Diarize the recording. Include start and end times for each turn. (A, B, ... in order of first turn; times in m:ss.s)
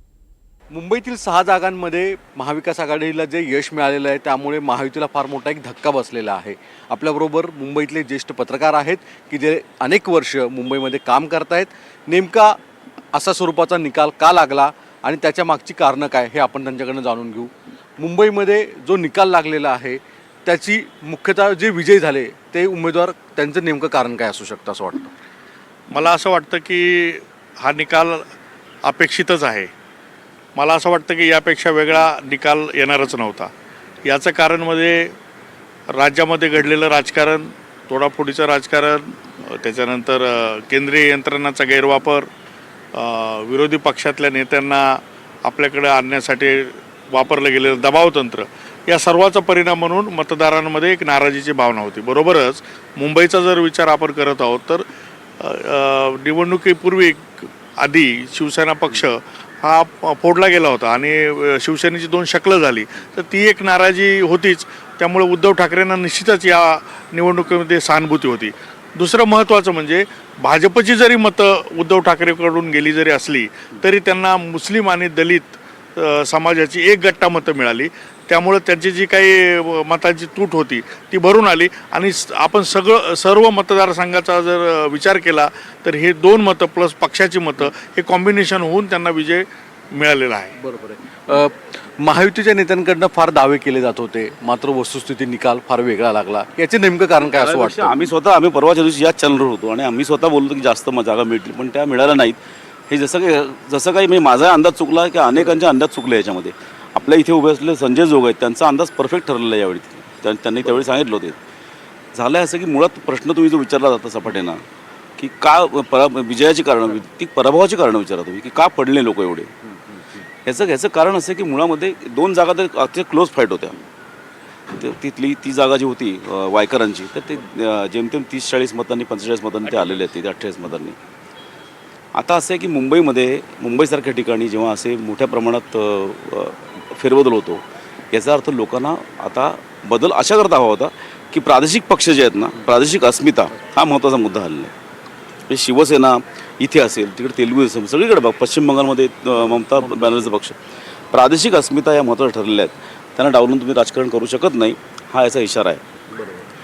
0:00.7-0:12.6 A
0:13.1-0:25.1 A
0:25.9-0:28.2 B
0:28.8-0:29.7 B
0:30.6-0:33.5 B
0:34.0-0:35.1 B
0:35.9-0:42.3 B
0:43.0-0:54.9 B
0:55.4-1:30.5 B
1:30.6-1:38.0 A
1:37.2-1:42.4 C
1:42.9-1:51.4 C
1:52.1-1:54.6 C
1:55.2-1:59.5 C
2:00.4-2:03.8 C
2:04.7-2:11.0 C
2:12.2-2:24.7 C
2:25.5-2:30.6 C
2:29.3-2:30.3 A
2:31.1-2:35.8 C
2:36.1-2:36.4 A